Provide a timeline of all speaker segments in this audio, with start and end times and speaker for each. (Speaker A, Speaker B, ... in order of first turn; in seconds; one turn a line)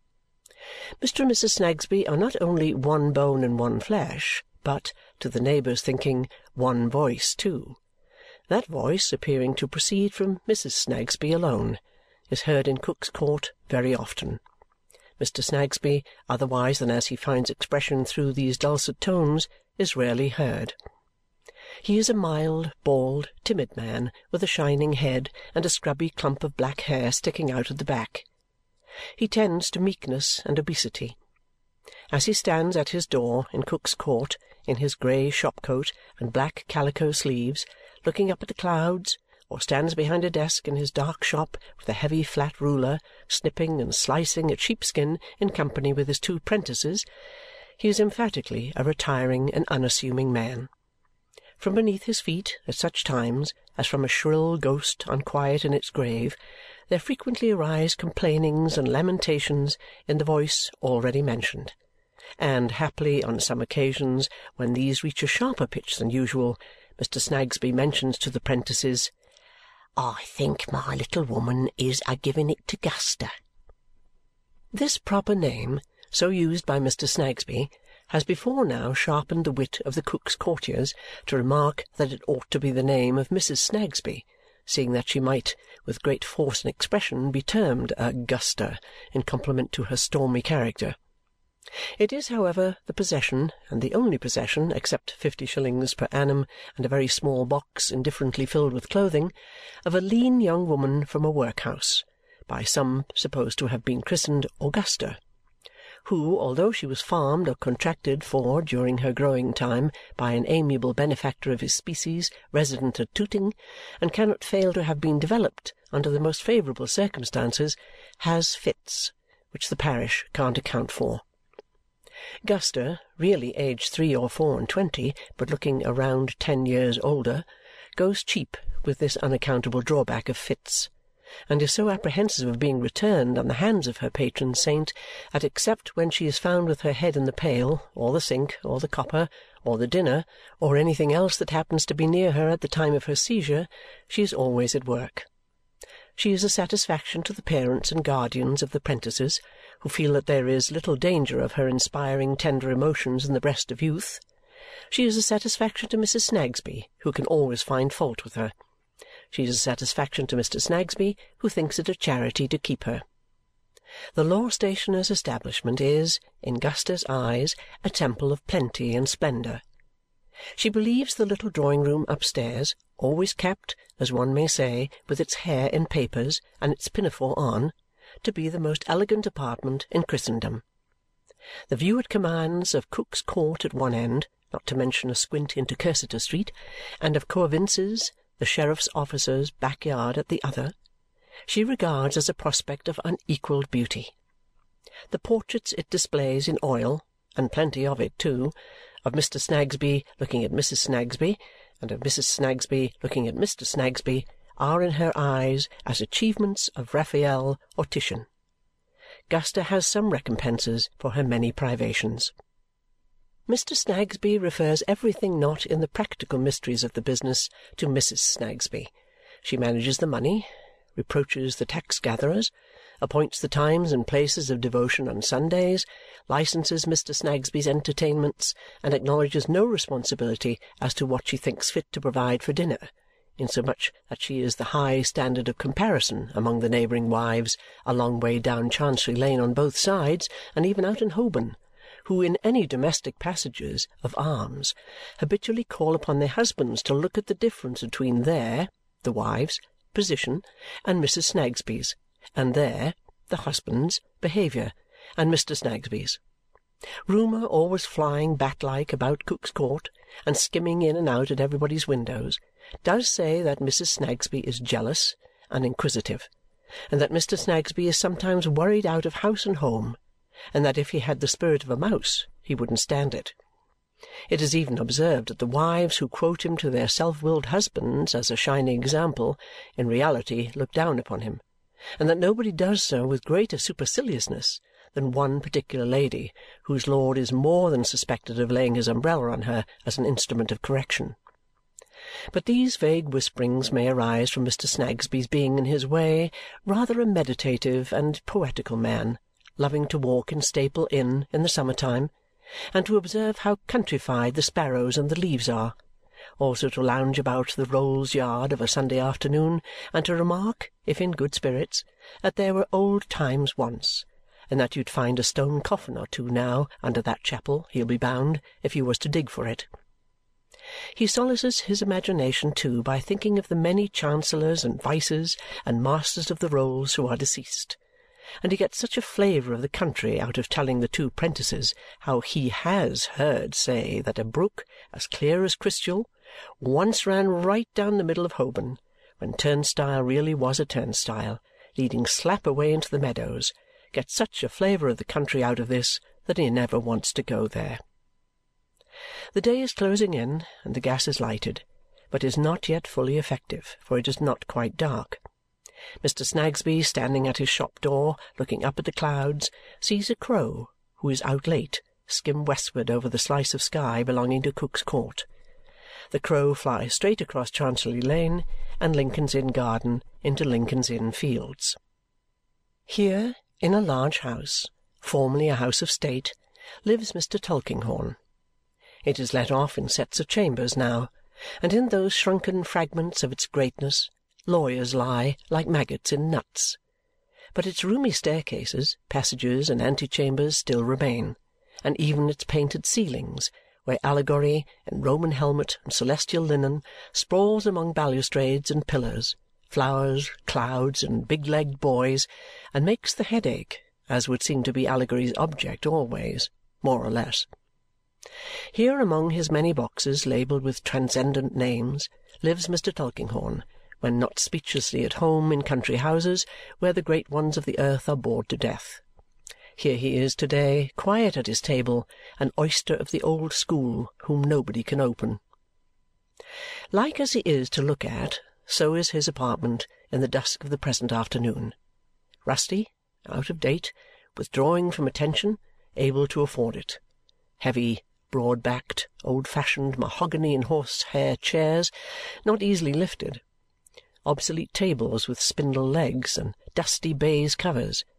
Speaker A: 1.0-7.8
Speaker A: 8.5-14.4
Speaker A: 15.2-20.8
Speaker A: 21.8-28.3
Speaker A: 29.2-31.2
Speaker A: 32.1-47.1
Speaker A: 47.8-50.7
Speaker A: 51.6-56.4
Speaker A: 56.9-61.7
Speaker A: 62.4-69.1
Speaker A: 70.0-73.3
Speaker A: 74.7-91.0
Speaker A: 92.0-99.3
Speaker A: 99.8-105.2
Speaker A: 106.0-121.2
Speaker A: 122.4-127.5
Speaker A: 128.0-130.9
Speaker A: 131.5-145.3
Speaker A: 146.2-154.2
Speaker A: 154.9-158.5
Speaker A: 159.3-163.0
Speaker A: 164.2-169.6
Speaker A: 170.6-180.6
Speaker A: 181.7-190.7
Speaker A: 191.5-194.1
Speaker A: 195.1-198.5
Speaker A: 199.1-208.3
Speaker A: 209.3-212.3
Speaker A: 213.5-218.9
Speaker A: 219.4-222.5
Speaker A: 223.0-256.2
Speaker A: 257.1-266.3
Speaker A: 266.9-270.0
Speaker A: 270.5-273.4
Speaker A: 274.3-281.4
Speaker A: 282.0-291.2
Speaker A: 292.3-302.1
Speaker A: 302.7-305.8
Speaker A: 306.4-319.7
Speaker A: 320.9-327.8
Speaker A: 328.4-347.8
Speaker A: 349.4-355.2
Speaker A: 356.0-365.3
Speaker A: 366.1-371.8
Speaker A: 372.9-378.2
Speaker A: 379.1-381.1
Speaker A: 381.6-386.8
Speaker A: 387.6-407.5
Speaker A: 408.7-419.0
Speaker A: 419.8-425.4
Speaker A: 426.9-431.7
Speaker A: 432.4-437.0
Speaker A: 437.6-441.9
Speaker A: 442.4-443.4
Speaker A: 444.2-448.1